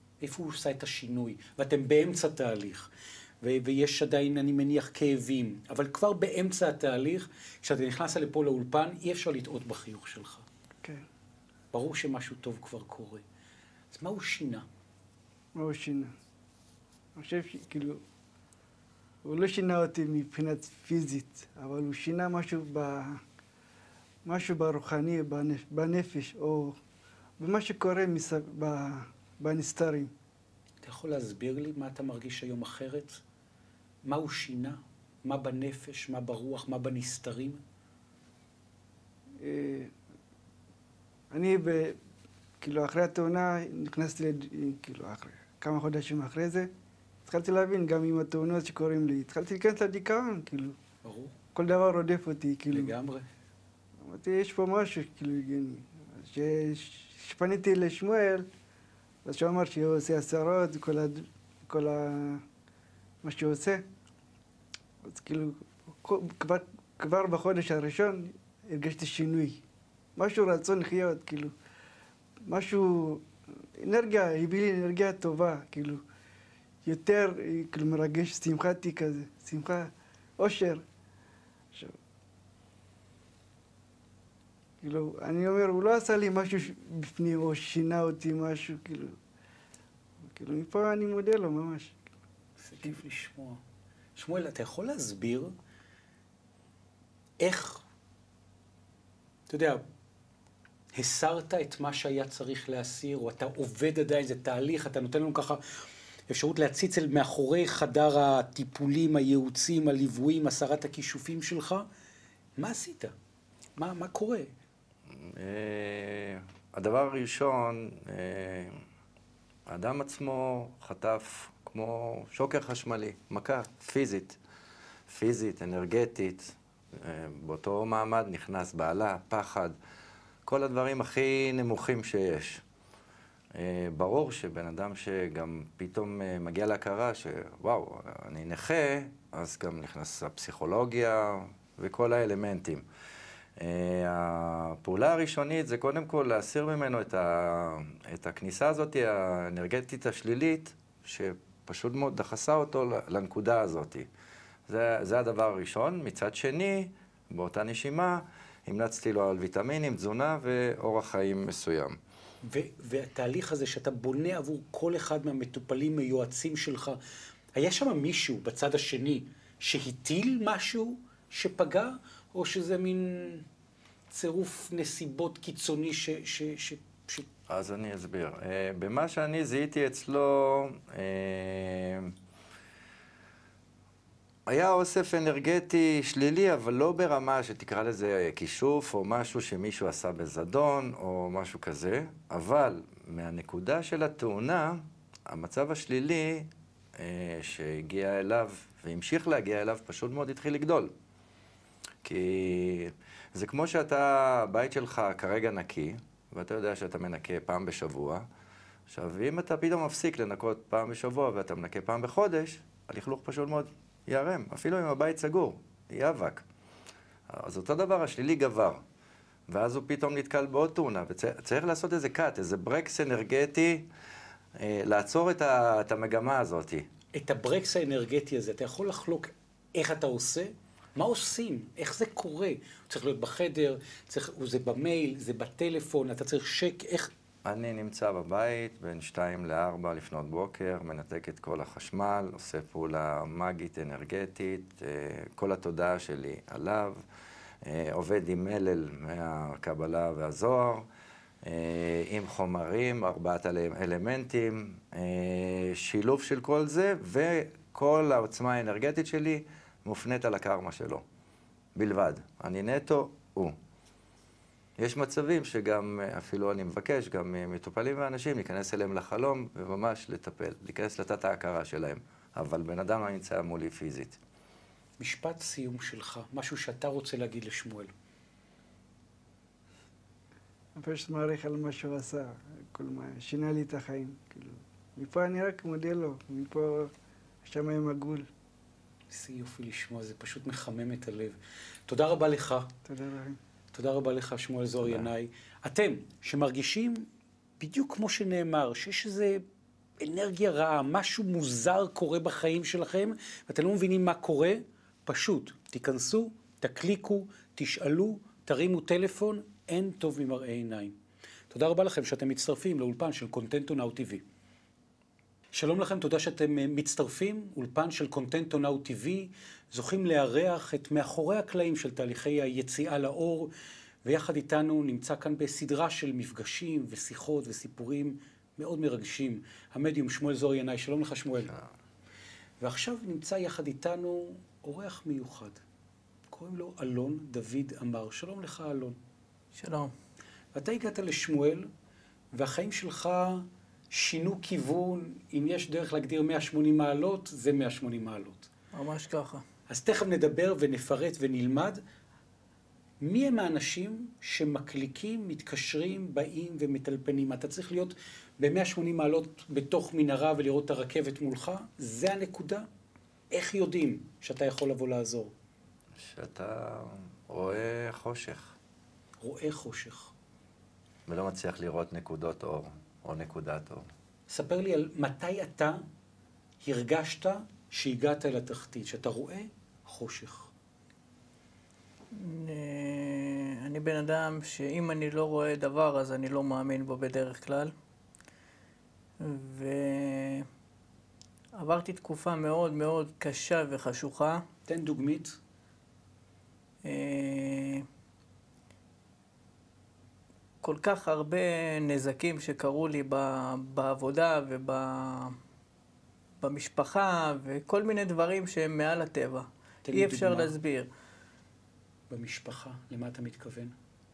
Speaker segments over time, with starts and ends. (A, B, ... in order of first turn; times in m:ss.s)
0:00.2-0:02.9 A
0:03.4-0:10.4 A
0:11.7-0:13.2 A
0:13.9-0:14.6 A
0:15.5-0:16.1 B
0:17.2-0:18.0 B
0:19.2-0:23.2 B
0:24.2-0:26.8 B
0:27.4-0:30.1 B
0:30.8-0:33.2 A
0:34.0-0:37.6 A
0:39.4-0:39.9 B
0:41.3-0:42.0 B
0:42.6-0:46.7 B
0:47.2-0:50.8 B
0:51.0-0:51.3 A
0:51.5-0:52.9 B
0:52.7-0:53.2 A
0:54.0-0:58.5 B
0:59.2-1:02.4 B
1:03.2-1:03.8 B
1:05.0-1:09.6 B
1:10.2-1:11.5 B
1:12.4-1:16.0 B
1:16.8-1:20.8 B
1:24.8-1:29.2 B
1:30.2-1:32.0 B
1:32.6-1:33.6 A
1:34.2-1:35.5 A
1:37.4-1:37.8 A
1:39.5-1:39.8 A
1:40.9-1:45.6 A
1:46.3-1:51.9 A
1:52.6-1:53.1 A
1:53.8-1:54.5 A
1:55.1-1:58.8 C
1:59.7-2:04.4 C
2:05.1-2:09.7 C
2:10.4-2:12.6 C
2:13.5-2:22.8 C
2:23.6-2:34.1 C
2:34.7-2:42.0 C
2:42.4-2:47.0 A
2:47.5-2:53.4 A
2:54.1-2:57.3 A
2:57.5-3:02.1 C
3:04.5-3:20.9 C
3:22.0-3:28.2 C
3:28.9-3:36.4 C
3:37.3-3:38.8 C
3:39.5-3:43.9 C
3:44.6-3:46.8 C
3:47.1-3:57.1 A
3:57.4-4:07.0 C
4:07.6-4:10.8 C
4:11.4-4:21.0 C
4:21.7-4:23.5 C
4:24.8-4:34.2 C
4:35.0-4:37.9 A
4:40.8-4:46.9 B
4:47.4-4:48.3 B
4:49.1-4:52.7 A
4:52.9-4:53.4 B
4:53.7-4:57.1 A
4:54.8-4:55.1 C
4:57.6-4:59.4 A
5:00.0-5:10.9 A
5:11.5-5:14.2 A
5:15.5-5:23.5 A
5:24.0-5:31.5 A
5:32.6-5:35.6 A
5:36.3-5:39.0 A
5:39.5-5:39.9 D
5:40.5-5:41.7 A
5:42.3-5:48.5 A
5:48.7-5:49.4 D
5:49.7-5:51.8 A
5:53.0-6:02.6 A
6:03.3-6:05.3 A
6:06.0-6:08.6 C
6:09.2-6:10.1 A
6:11.1-6:13.8 C
6:14.3-6:15.8 A
6:16.6-6:20.5 A
6:22.1-6:27.7 D
6:29.2-6:30.4 D
6:31.6-6:34.4 D
6:34.7-6:35.4 A
6:36.8-6:37.8 D
6:40.6-6:45.4 D
6:46.4-6:50.9 D
6:49.8-6:50.5 A
6:52.1-6:53.7 A